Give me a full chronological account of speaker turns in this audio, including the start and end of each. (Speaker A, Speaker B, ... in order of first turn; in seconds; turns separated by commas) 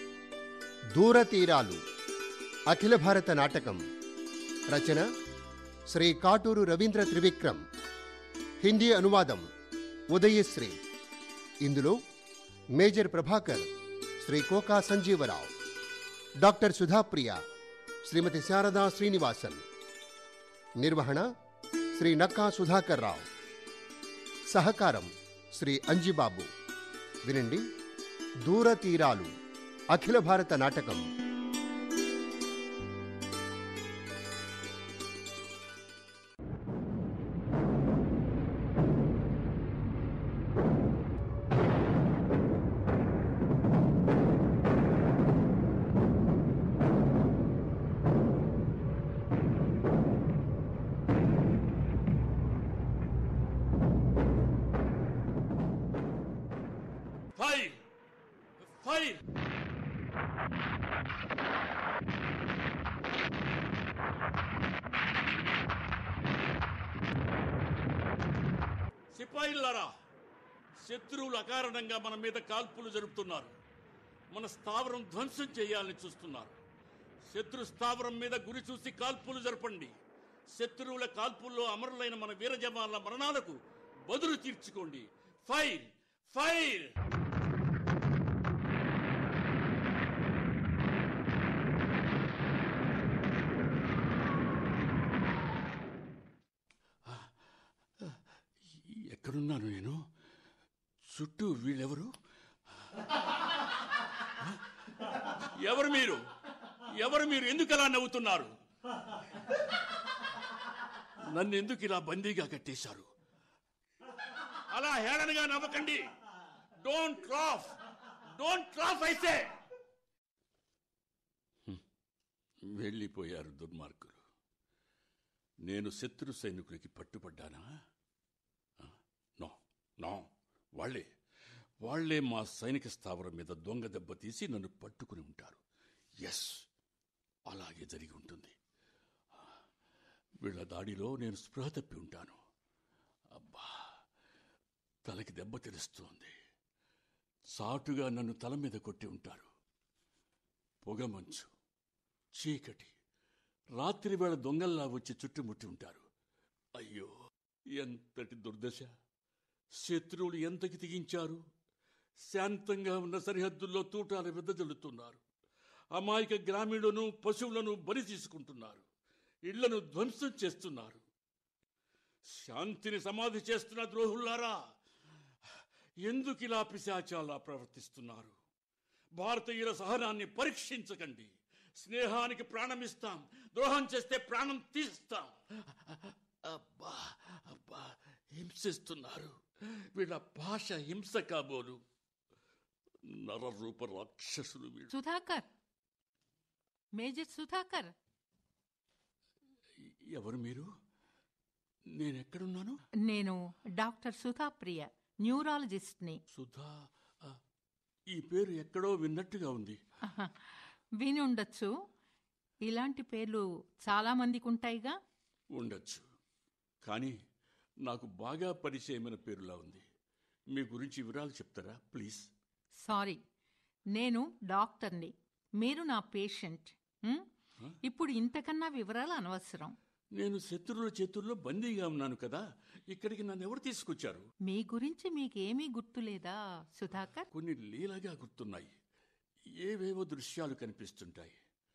Speaker A: 0.9-1.8, Speaker A: 2.7-3.8, Speaker A: 4.7-5.1, Speaker A: 5.9-7.6, Speaker A: 8.6-9.5, Speaker A: 10.1-10.8, Speaker A: 11.6-12.0, Speaker A: 12.8-13.7, Speaker A: 14.2-15.5, Speaker A: 16.4-17.4, Speaker A: 18.1-19.6, Speaker A: 20.8-21.3, Speaker A: 21.9-23.3, Speaker A: 24.5-26.5, Speaker A: 27.2-27.6, Speaker A: 28.4-29.3, Speaker A: 29.9-31.1, Speaker B: 57.4-57.8, Speaker B: 58.6-59.2, Speaker B: 69.1-69.9, Speaker B: 70.8-73.5, Speaker B: 74.3-76.6, Speaker B: 77.3-79.9, Speaker B: 80.5-86.9, Speaker B: 97.0-97.3, Speaker B: 98.8-100.0, Speaker B: 101.1-102.1, Speaker B: 102.8-103.6, Speaker B: 104.4-106.2, Speaker B: 106.9-108.5, Speaker B: 109.5-109.8, Speaker B: 111.2-113.1, Speaker B: 114.5-116.0, Speaker B: 116.8-119.5, Speaker B: 122.7-124.2, Speaker B: 125.7-127.7, Speaker B: 128.8-131.1, Speaker B: 131.8-135.6, Speaker B: 136.2-136.7, Speaker B: 137.5-138.6, Speaker B: 140.4-142.4, Speaker B: 143.3-143.9, Speaker B: 145.1-146.3, Speaker B: 147.6-149.5, Speaker B: 150.8-151.5, Speaker B: 152.4-152.9, Speaker B: 153.8-156.0, Speaker B: 156.8-157.1, Speaker B: 157.8-158.9, Speaker B: 159.8-161.4, Speaker B: 162.3-165.2, Speaker B: 165.9-168.8, Speaker B: 169.5-171.0, Speaker B: 172.3-174.6, Speaker B: 175.5-178.3, Speaker B: 179.2-191.8, Speaker B: 193.0-194.9, Speaker C: 194.9-195.4, Speaker C: 197.0-197.9, Speaker B: 199.8-200.7, Speaker B: 201.9-202.8, Speaker C: 203.0-206.2, Speaker B: 206.3-207.4, Speaker B: 208.1-209.8, Speaker C: 210.1-211.7, Speaker C: 212.7-215.0, Speaker B: 215.6-216.1, Speaker B: 216.8-217.2, Speaker B: 217.8-219.8, Speaker B: 220.5-222.3, Speaker C: 222.8-223.2, Speaker C: 223.9-227.3, Speaker C: 227.8-229.8, Speaker B: 230.2-234.3, Speaker C: 234.5-237.3, Speaker B: 237.3-238.7, Speaker B: 239.6-241.4